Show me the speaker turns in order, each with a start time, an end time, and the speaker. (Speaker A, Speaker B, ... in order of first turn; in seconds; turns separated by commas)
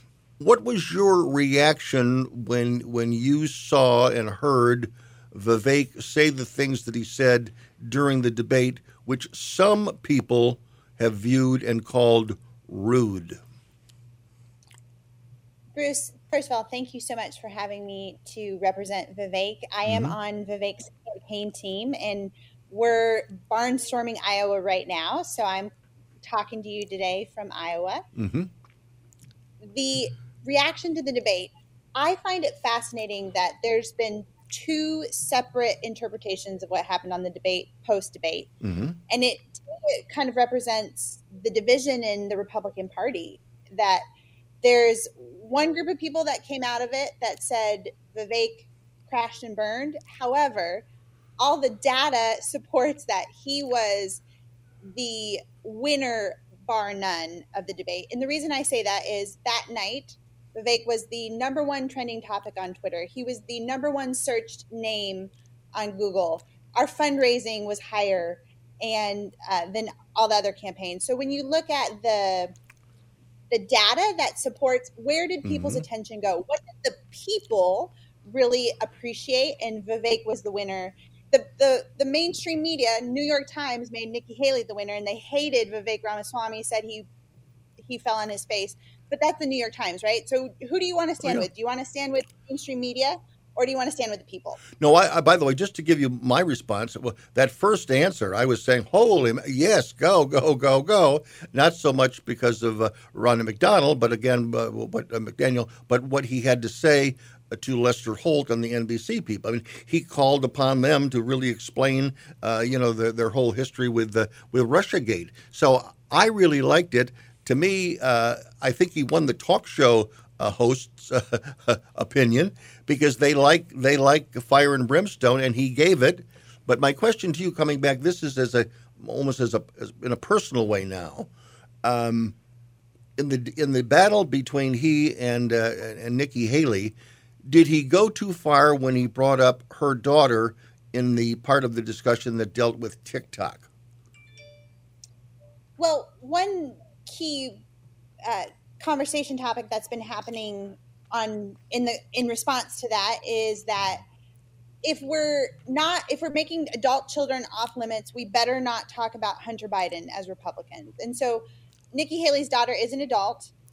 Speaker A: 0.4-13.4, Speaker B: 15.8-25.7, Speaker A: 19.9-20.1, Speaker B: 26.2-28.1, Speaker A: 28.1-28.5, Speaker B: 29.7-38.5, Speaker A: 38.6-39.0, Speaker B: 39.1-44.0, Speaker B: 44.6-50.8, Speaker B: 51.4-54.2, Speaker B: 54.9-72.5, Speaker B: 73.5-87.1, Speaker A: 75.4-75.8, Speaker B: 87.8-94.6, Speaker A: 94.7-131.3, Speaker A: 131.8-132.3, Speaker A: 133.2-143.7, Speaker B: 145.8-147.6, Speaker B: 148.3-154.0, Speaker B: 154.8-163.5